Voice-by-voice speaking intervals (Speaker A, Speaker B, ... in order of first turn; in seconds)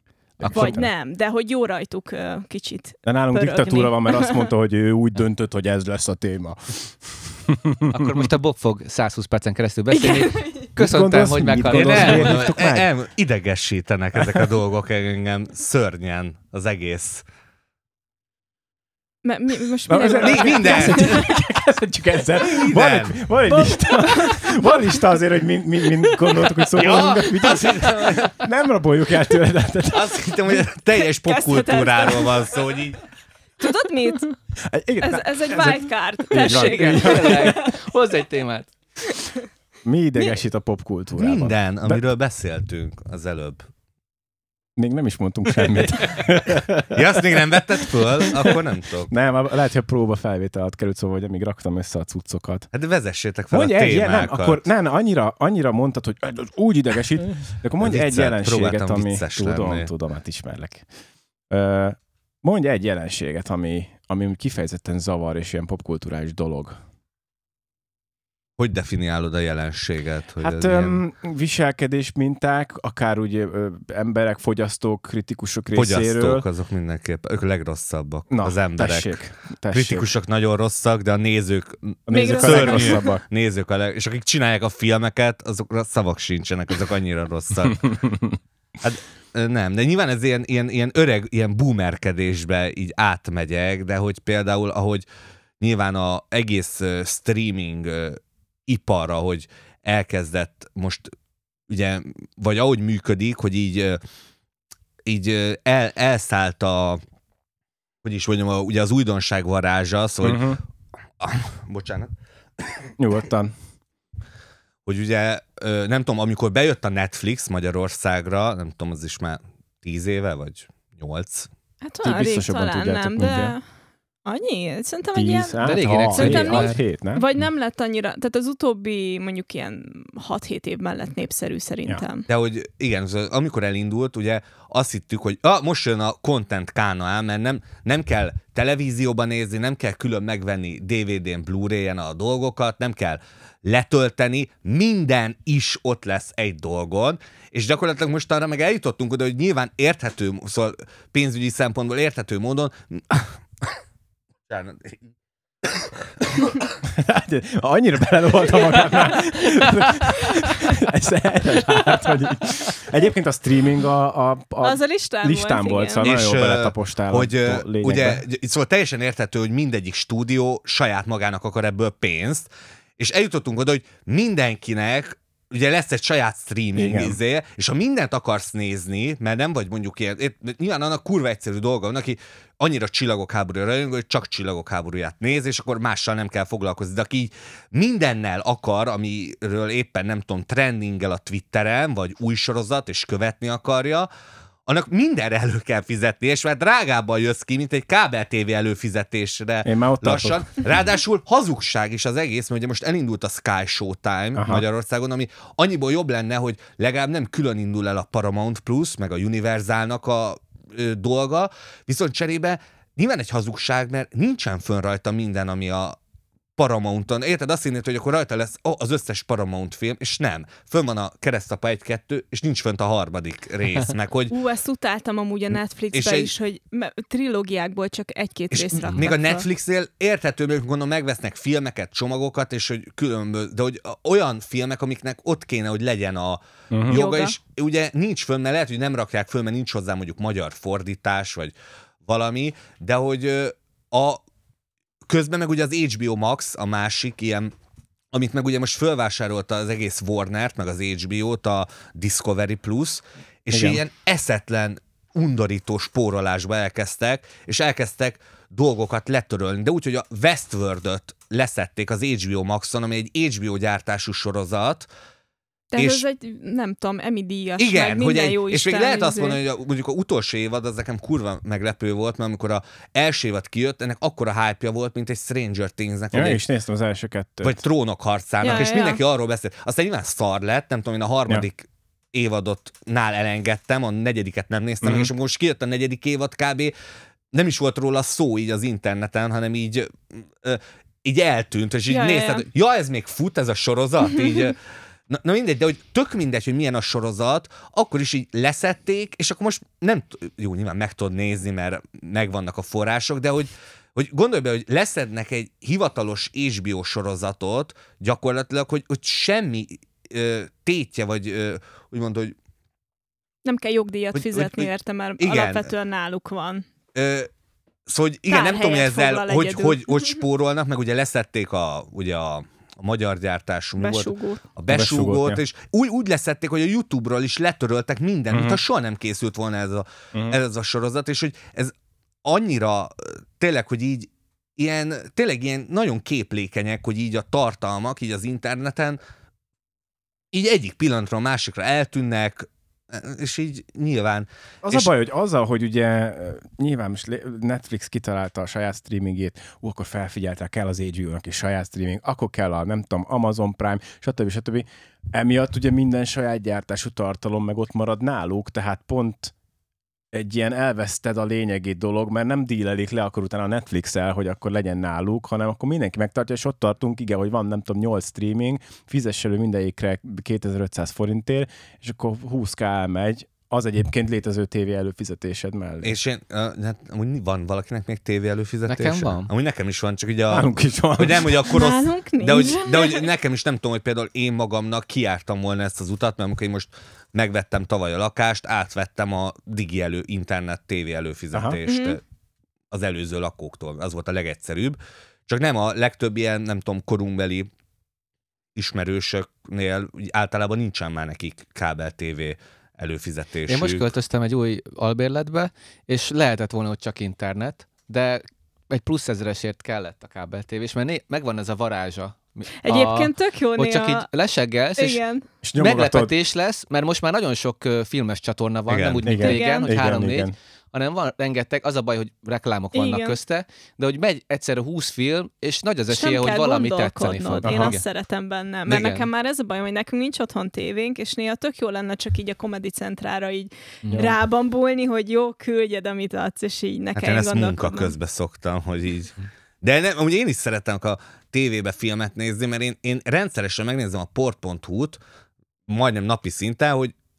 Speaker A: 0.4-0.9, 3.0-8.3, 10.8-12.9, 19.9-30.3, 34.7-37.7, 39.8-42.0, 44.8-48.6, 49.1-52.7, 53.5-60.9, 61.5-66.8, 70.4-76.5, 78.3-80.1, 82.1-83.2, 110.2-110.6, 113.0-113.5, 122.0-123.6, 125.1-127.2, 156.9-168.2, 176.8-177.2, 199.7-200.5, 204.4-204.6, 236.7-237.0, 253.5-253.8, 276.1-277.6, 284.8-285.1, 324.7-325.4, 328.3-328.6, 344.6-359.3, 360.1-375.9, 380.3-381.4, 415.4-416.1, 419.0-420.3, 427.4-427.8
Speaker B: 0.4-0.8, 7.9-12.5, 36.4-38.8, 45.6-46.2, 125.6-126.8, 378.7-379.3, 403.5-415.0, 415.6-427.8, 428.7-429.1, 433.9-434.1
Speaker C: 0.5-4.5, 9.9-10.7, 19.2-21.3, 23.5-25.0, 31.2-32.5, 33.6-34.4, 35.0-37.7, 82.1-83.2, 121.8-123.6, 124.2-132.3, 164.6-166.1, 224.3-229.4, 236.9-237.4, 265.7-269.4, 278.4-279.0, 291.9-292.5, 313.4-316.6, 318.3-320.2, 323.8-324.4, 381.5-383.1, 391.7-392.0, 412.6-414.1, 414.8-415.2, 419.2-419.7, 422.7-423.2, 425.9-437.9
Speaker D: 11.7-17.2, 20.2-21.3, 22.4-23.2, 26.8-28.4, 29.9-33.0, 41.2-43.7, 46.9-49.1, 52.7-54.7, 57.8-59.9, 68.6-71.0, 75.7-87.9, 88.8-95.1, 95.6-101.1, 101.7-104.0, 105.1-107.0, 108.0-110.6, 111.2-112.8, 114.9-121.5, 132.3-153.4, 154.5-155.1, 155.6-156.5, 166.0-194.1, 194.7-216.0, 216.6-224.3, 225.9-226.3, 228.5-244.2, 245.1-247.5, 248.1-264.9, 265.8-266.1, 267.6-276.4, 277.4-286.7, 287.3-294.6, 295.1-312.4, 314.1-315.7, 316.9-317.3, 317.9-331.7, 332.2-339.0, 340.3-344.9, 375.8-392.0, 392.7-397.5, 398.6-403.9, 418.7-419.1, 437.0-445.0, 445.7-446.9